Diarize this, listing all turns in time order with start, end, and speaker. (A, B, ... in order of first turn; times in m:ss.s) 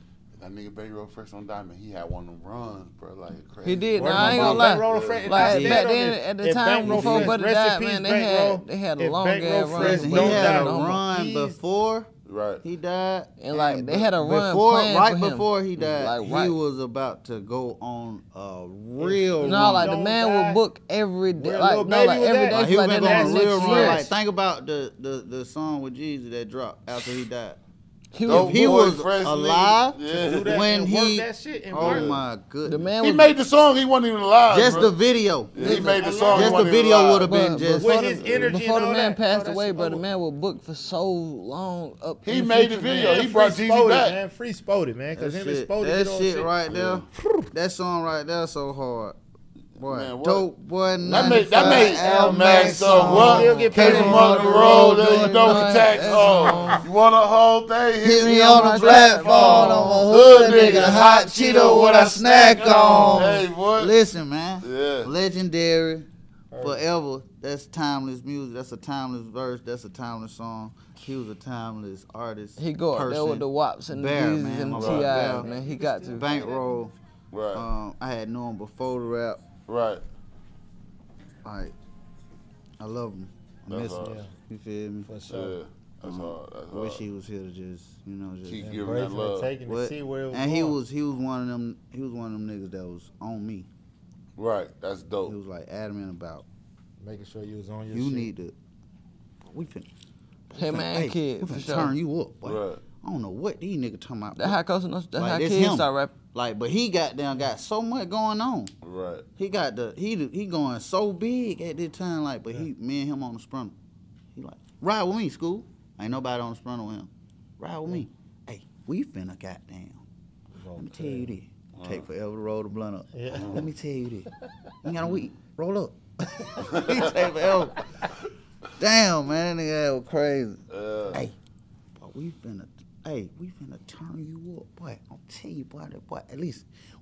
0:00.4-0:05.4 A
0:03.6-0:11.0 B
0:04.0-0:11.6 C
0:04.1-0:04.7 D
0:05.4-0:05.9 D
0:06.8-0:07.4 D
0:09.7-0:12.1 D
0:12.3-0:12.6 A
0:12.6-0:19.9 D
0:13.4-0:16.6 B
0:19.0-0:20.6 C
0:19.4-0:24.1 B
0:21.3-0:24.1 C
0:22.5-0:27.6 D
0:28.1-0:28.8 B
0:28.2-0:30.6 A
0:28.3-0:32.9 D
0:30.1-0:32.2 C
0:31.8-0:32.2 A
0:32.6-0:33.3 B
0:33.0-0:34.9 A
0:34.5-0:38.4 D
0:35.5-0:37.4 A
0:35.6-0:36.9 C
0:37.1-0:43.2 B
0:37.7-0:40.0 C
0:42.2-0:44.2 A
0:42.8-0:46.5 C
0:45.2-0:49.2 D
0:46.7-0:47.0 A
0:47.2-0:47.5 C
0:49.8-0:56.8 D
0:49.8-0:50.5 A
0:51.0-1:03.9 A
0:51.0-0:55.3 C
0:53.0-0:56.8 B
0:58.0-1:06.1 D
0:58.2-1:00.9 B
1:03.0-1:03.3 B
1:04.6-1:05.1 A
1:06.5-1:06.8 C
1:06.6-1:15.5 D
1:12.6-1:16.4 B
1:14.7-1:15.1 A
1:15.1-1:16.6 C
1:16.1-1:16.9 D
1:17.3-1:17.6 A
1:17.5-1:19.4 D
1:19.7-1:20.0 A
1:21.4-1:21.8 D
1:22.8-1:25.1 D
1:23.7-1:24.2 A
1:24.0-1:24.3 C
1:25.0-1:25.6 C
1:25.3-1:27.0 A
1:26.0-1:28.9 D
1:28.5-1:29.5 A
1:28.6-1:30.8 C
1:29.7-1:33.7 D
1:34.4-1:35.4 A
1:35.3-1:36.5 D
1:37.0-1:38.3 C
1:37.9-1:38.6 D
1:39.4-1:39.9 D
1:40.5-1:44.6 D
1:40.6-1:41.9 B
1:42.4-1:42.8 A
1:44.4-1:46.1 B
1:45.2-1:48.7 D
1:48.8-1:49.3 A
1:49.4-1:53.8 D
1:54.4-2:00.0 D
2:00.5-2:01.3 C
2:00.8-2:04.3 D
2:01.8-2:02.0 A
2:03.1-2:03.7 C
2:03.3-2:03.6 A
2:04.8-2:07.8 D
2:06.7-2:07.1 A
2:08.8-2:10.6 D
2:10.7-2:11.2 A
2:11.1-2:11.4 D
2:12.0-2:16.7 D